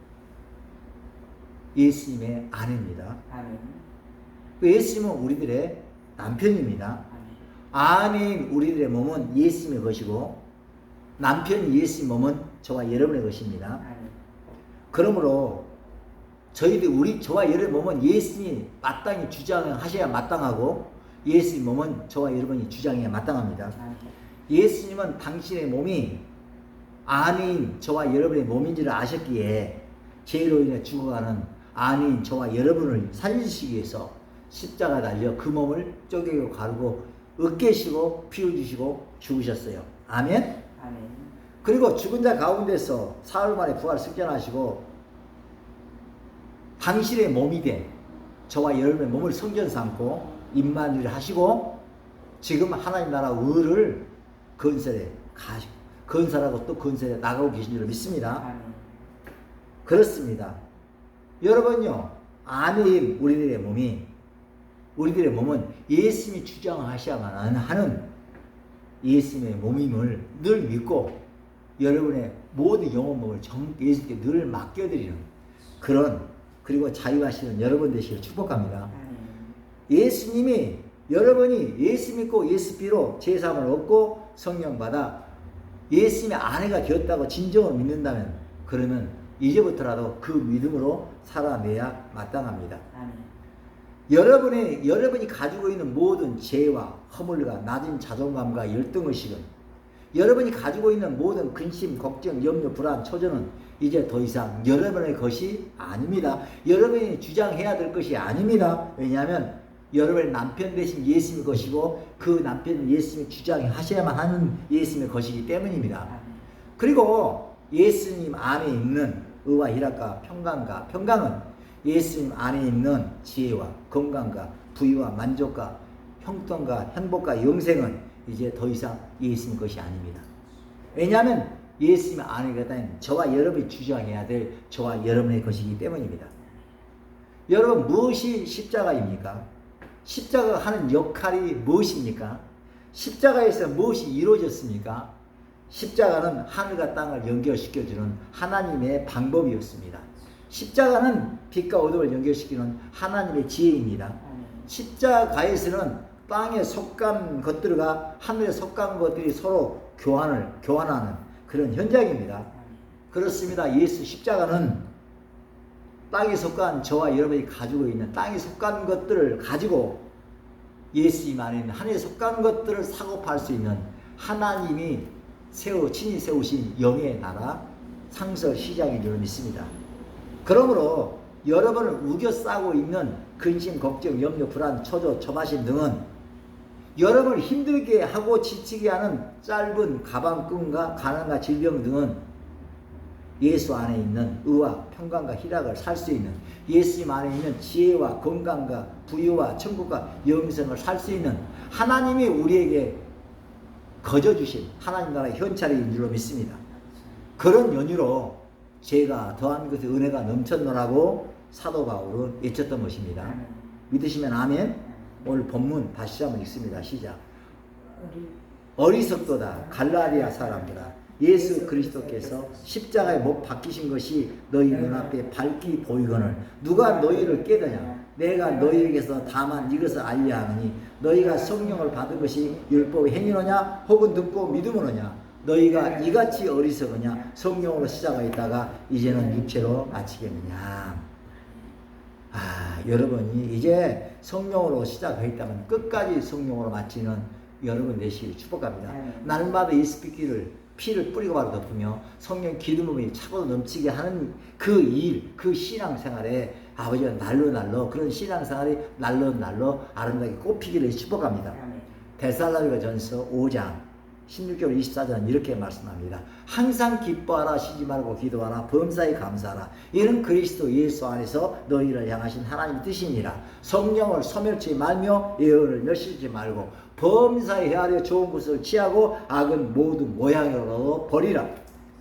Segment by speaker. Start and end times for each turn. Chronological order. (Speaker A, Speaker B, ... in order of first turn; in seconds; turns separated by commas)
Speaker A: 1.7-3.2, Speaker B: 3.3-3.9, Speaker A: 4.6-7.0, Speaker B: 7.1-7.4, Speaker A: 7.7-10.4, Speaker A: 11.2-13.8, Speaker B: 13.8-14.2, Speaker A: 14.9-15.7, Speaker A: 16.5-23.8, Speaker B: 23.8-24.1, Speaker A: 24.5-26.2, Speaker A: 27.1-40.6, Speaker B: 40.8-41.4, Speaker A: 41.6-44.9, Speaker A: 46.8-47.9, Speaker A: 48.5-51.8, Speaker A: 52.4-58.5, Speaker B: 58.2-59.0, Speaker A: 59.9-60.6, Speaker A: 61.4-64.1, Speaker A: 65.0-68.1, Speaker A: 69.0-71.2, Speaker A: 71.8-75.3, Speaker A: 75.8-78.9, Speaker B: 78.9-79.6, Speaker A: 79.9-85.2, Speaker A: 85.9-92.8, Speaker B: 92.9-93.3, Speaker A: 94.1-99.5, Speaker A: 100.1-116.1, Speaker B: 116.1-116.4, Speaker A: 116.8-130.3, Speaker A: 130.9-136.3, Speaker A: 137.5-139.5, Speaker A: 140.0-145.1, Speaker A: 145.7-162.5, Speaker B: 154.2-154.7, Speaker B: 162.5-162.9, Speaker A: 163.1-164.8, Speaker A: 166.1-170.1, Speaker A: 170.9-179.7, Speaker A: 180.4-186.0, Speaker A: 186.9-192.2, Speaker A: 193.4-203.0, Speaker A: 204.0-206.6, Speaker B: 206.7-207.3, Speaker A: 207.4-217.2, Speaker B: 213.2-213.8, Speaker B: 214.8-215.3, Speaker A: 218.8-241.1, Speaker B: 226.8-228.1, Speaker B: 228.6-229.8, Speaker B: 235.8-236.5, Speaker A: 242.3-261.6, Speaker B: 248.9-249.6, Speaker B: 261.5-262.0, Speaker A: 262.2-281.5